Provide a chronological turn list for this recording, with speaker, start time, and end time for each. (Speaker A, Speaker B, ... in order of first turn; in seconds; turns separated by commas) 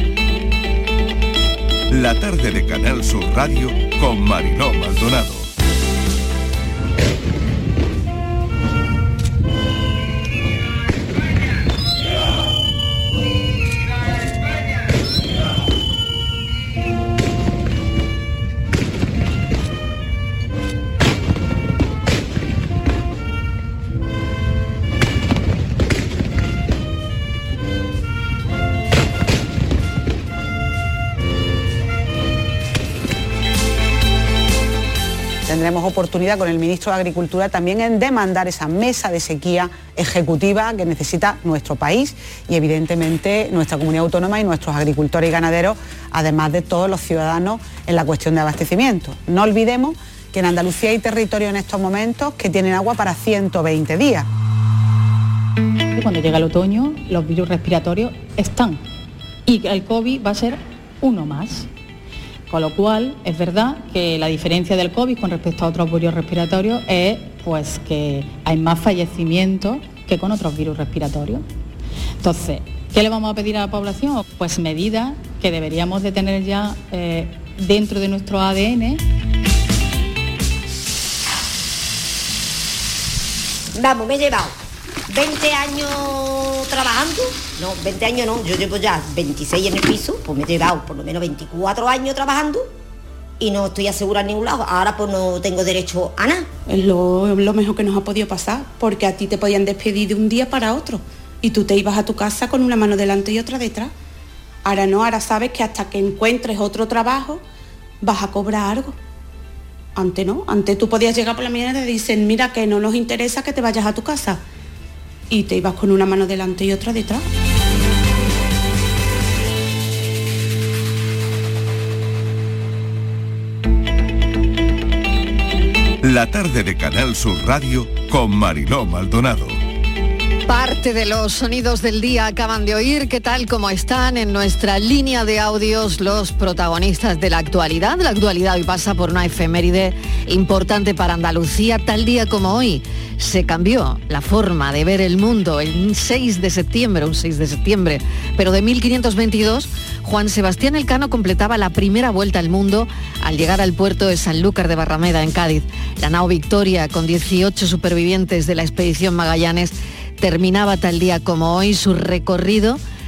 Speaker A: 1.9-5.5, Speaker B: 35.5-54.3, Speaker C: 56.0-58.8, Speaker C: 59.5-61.7, Speaker C: 62.5-71.5, Speaker C: 72.2-79.0, Speaker D: 83.8-84.5, Speaker D: 85.1-92.7, Speaker D: 93.4-96.5, Speaker E: 96.7-103.9, Speaker E: 104.7-107.4, Speaker E: 108.0-109.0, Speaker E: 110.0-114.4, Speaker E: 115.3-117.3, Speaker A: 126.0-129.6, Speaker F: 130.5-162.8